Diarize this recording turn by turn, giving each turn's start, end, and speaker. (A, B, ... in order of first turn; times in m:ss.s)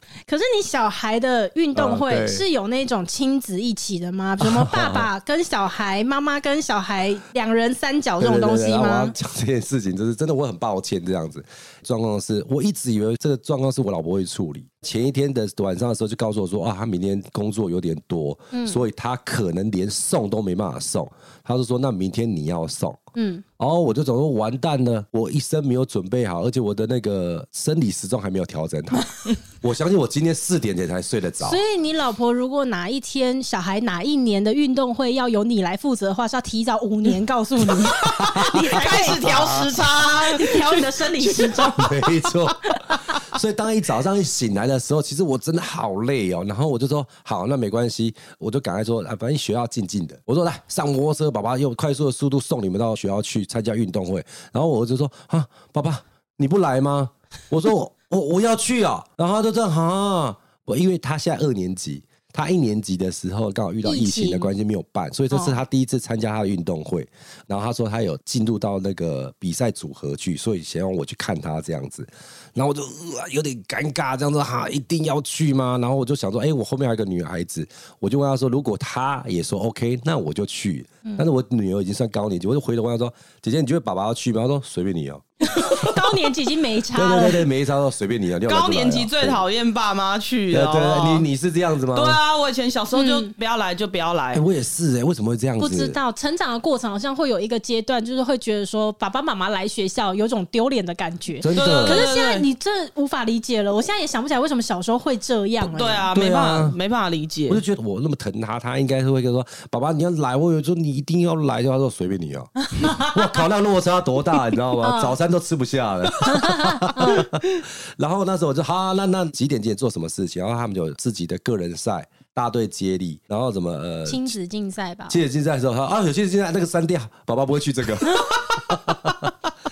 0:00.3-0:09.1 A
0:01.7-0:02.4 B
0:04.4-0:05.1 B
0:08.2-0:23.0 B
0:18.5-0:18.8 A
0:23.1-0:23.4 A
0:23.6-0:31.6 B
0:31.4-0:39.7 A
0:38.0-0:41.7 C
0:38.2-0:39.7 B
0:40.2-0:43.1 A
0:41.7-1:26.1 B
1:03.8-1:04.5 A
1:25.5-1:27.4 A
1:26.9-1:29.4 B
1:28.4-1:31.3 C
1:30.5-1:32.2 B
1:31.9-1:34.4 C
1:32.9-1:33.3 A
1:34.3-1:36.0 B
1:35.6-1:46.1 A
1:41.4-1:42.1 B
1:41.5-1:42.4 C
1:45.6-1:47.6 C
1:46.1-1:46.8 B
1:47.5-2:04.3 B
1:52.8-1:53.1 A
1:54.8-1:55.2 A
1:56.2-1:57.3 A
2:04.0-2:05.2 A
2:05.1-2:09.3 B